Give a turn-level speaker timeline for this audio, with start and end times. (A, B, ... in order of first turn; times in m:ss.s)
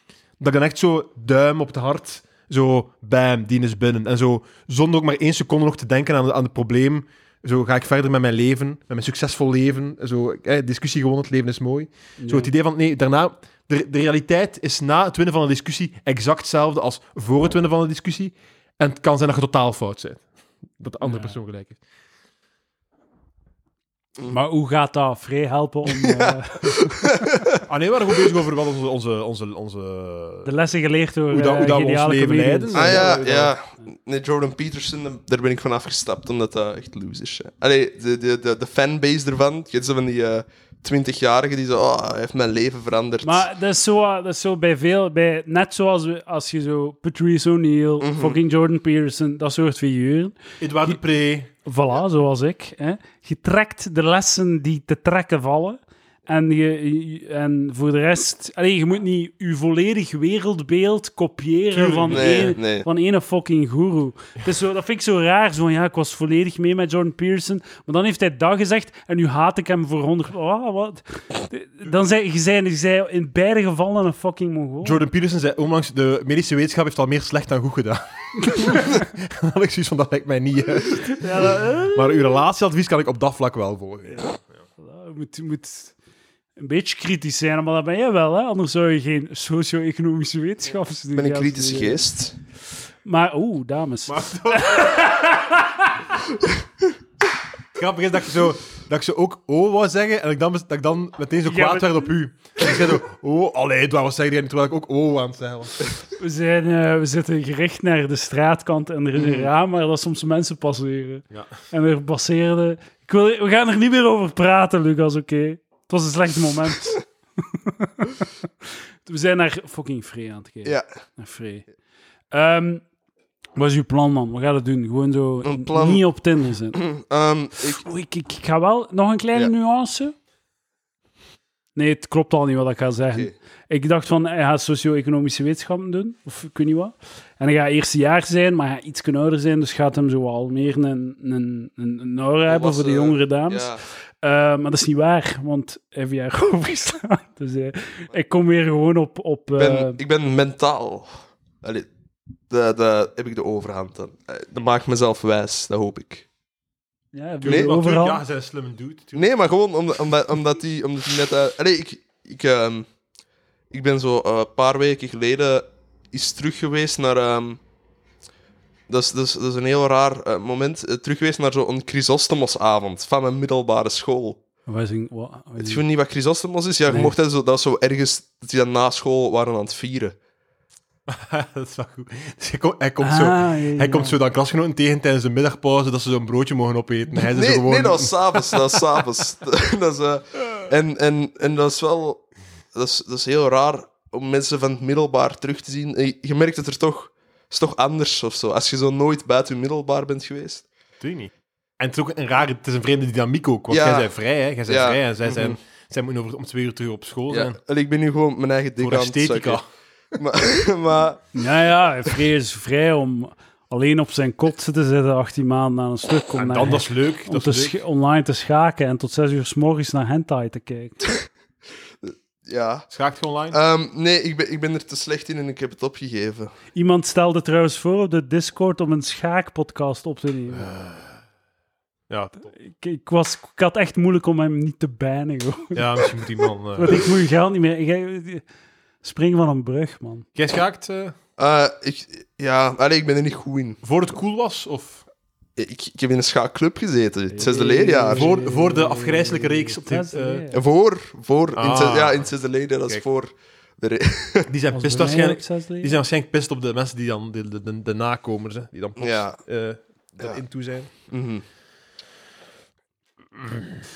0:00.4-0:21.8 A
0:12.2-0:12.5 B
0:21.0-0:21.4 B
0:24.3-0:27.0 B
0:25.9-0:27.6 C
0:27.7-0:30.5 A
0:30.4-0:33.2 B
0:31.3-0:33.5 A
0:32.7-0:43.5 C
0:43.2-0:51.0 B
0:48.0-0:48.4 C
0:50.6-0:51.5 A
0:51.6-1:15.0 B
1:01.7-1:02.5 A
1:02.1-1:02.9 C
1:14.8-1:24.4 A
1:18.5-1:18.9 B
1:21.1-1:22.2 B
1:24.1-1:25.9 B
1:26.6-1:32.0 B
1:31.2-1:32.4 C
1:33.0-1:35.9 B
1:34.1-1:35.1 A
1:37.7-1:45.8 A
1:41.4-1:42.1 B
1:46.2-1:58.3 B
1:59.0-2:01.7 B
2:02.3-2:02.8 B
2:03.6-2:06.8 B
2:05.4-2:06.0 C
2:06.7-2:07.8 C
2:07.6-2:10.1 B
2:11.8-2:30.0 B
2:22.5-2:23.8 C
2:29.6-2:31.1 C
2:31.6-2:31.9 C
2:32.5-2:36.2 C
2:37.1-2:38.2 B
2:37.4-2:39.3 A
2:37.4-2:37.7 C
2:39.2-2:42.9 C
2:43.7-2:47.6 C
2:48.9-2:54.4 C
2:54.7-2:55.8 B
2:55.6-3:00.2 C
2:56.9-2:57.1 B
3:01.1-3:08.6 A
3:03.0-3:04.2 B
3:07.2-3:20.7 C
3:21.0-3:27.6 A
3:23.7-3:24.1 C
3:24.7-3:25.6 C
3:27.3-3:29.6 C
3:28.8-3:29.6 A
3:30.1-3:31.2 C
3:31.3-3:41.1 B
3:36.3-3:37.8 A
3:42.0-3:42.9 C
3:42.9-3:43.6 A
3:43.5-3:46.5 C
3:46.7-3:50.7 B
3:50.5-3:51.1 A
3:52.1-3:52.5 A
3:52.6-3:56.2 B
3:55.7-3:57.1 A
3:56.8-3:58.4 B
3:59.0-4:00.2 B
4:00.4-4:01.2 A
4:01.4-4:03.8 C
4:03.8-4:05.0 A
4:05.6-4:08.3 C
4:07.3-4:10.6 B
4:08.1-4:10.4 A
4:10.5-4:14.5 C
4:11.5-4:12.3 A
4:14.5-4:20.9 A
4:14.7-4:16.0 B
4:19.0-4:19.4 C
4:21.1-4:21.4 C
4:23.4-4:23.8 A